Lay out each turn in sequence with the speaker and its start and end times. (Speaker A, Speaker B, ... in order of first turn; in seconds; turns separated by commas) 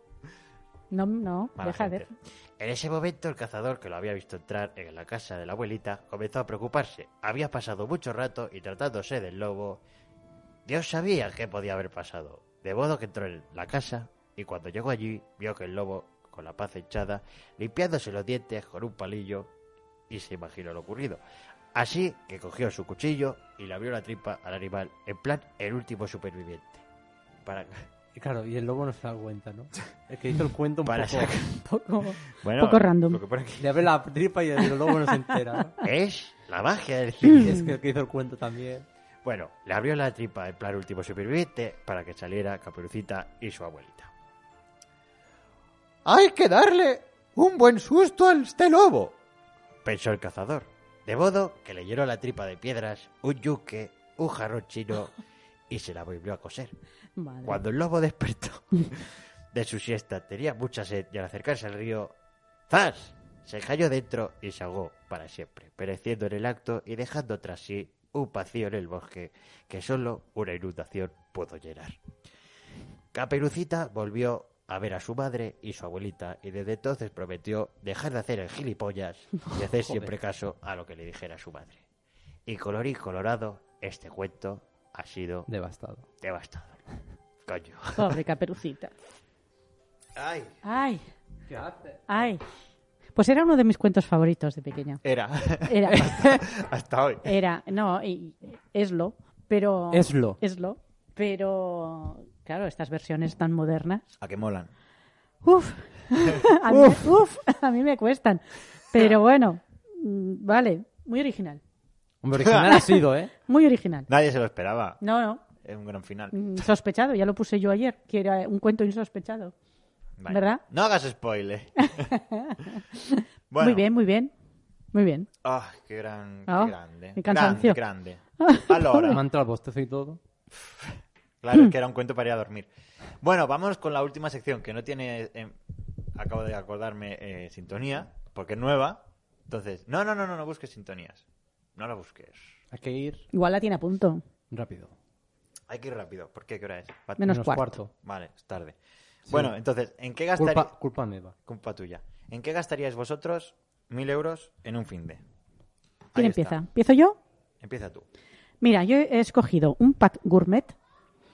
Speaker A: 0.9-2.0, Speaker B: 1.6-9.8, Speaker B: 10.7-19.5, Speaker B: 20.1-21.2, Speaker B: 21.7-26.8, Speaker B: 27.4-27.8, Speaker C: 28.1-31.3, Speaker B: 30.9-31.6, Speaker A: 31.6-33.2, Speaker B: 32.4-33.7, Speaker C: 33.6-35.8, Speaker B: 35.8-37.6, Speaker C: 37.3-38.9, Speaker B: 39.2-44.1, Speaker B: 46.0-49.1, Speaker B: 49.8-55.1, Speaker B: 55.7-56.7, Speaker A: 57.2-57.6, Speaker B: 57.4-62.1, Speaker B: 62.7-72.0, Speaker B: 73.1-81.8, Speaker C: 79.7-80.1, Speaker B: 82.5-85.5, Speaker C: 85.5-86.0, Speaker B: 86.2-86.8, Speaker B: 87.5-88.1, Speaker A: 88.0-88.9, Speaker B: 90.2-90.5, Speaker A: 90.6-91.0, Speaker C: 91.5-92.0, Speaker A: 92.1-92.4, Speaker A: 93.1-95.0, Speaker B: 95.0-97.3, Speaker A: 95.6-96.2, Speaker A: 97.2-104.0, Speaker C: 99.9-100.4, Speaker B: 104.2-104.7, Speaker A: 105.4-111.6, Speaker C: 106.7-107.0, Speaker C: 112.2-113.3, Speaker B: 112.4-112.7, Speaker A: 113.5-114.1, Speaker B: 114.1-115.0, Speaker A: 115.0-115.4, Speaker B: 115.6-116.4, Speaker A: 116.3-119.5, Speaker B: 120.2-122.1, Speaker A: 120.3-120.6, Speaker A: 122.0-124.3, Speaker B: 123.5-123.8, Speaker A: 124.9-125.3, Speaker B: 125.4-129.2, Speaker A: 126.5-127.8, Speaker A: 128.4-129.2, Speaker C: 129.1-130.2, Speaker B: 131.4-132.7, Speaker B: 133.2-135.5, Speaker B: 136.1-141.2, Speaker B: 141.8-142.6, Speaker C: 142.7-143.2, Speaker A: 143.3-144.2, Speaker C: 144.5-144.9, Speaker B: 145.7-147.3, Speaker A: 147.2-147.8, Speaker C: 147.2-147.9, Speaker B: 147.9-148.8, Speaker B: 149.3-150.7, Speaker C: 150.3-151.3, Speaker B: 151.4-155.2, Speaker B: 156.1-156.6, Speaker A: 156.1-157.2, Speaker B: 157.6-158.0, Speaker A: 158.6-160.7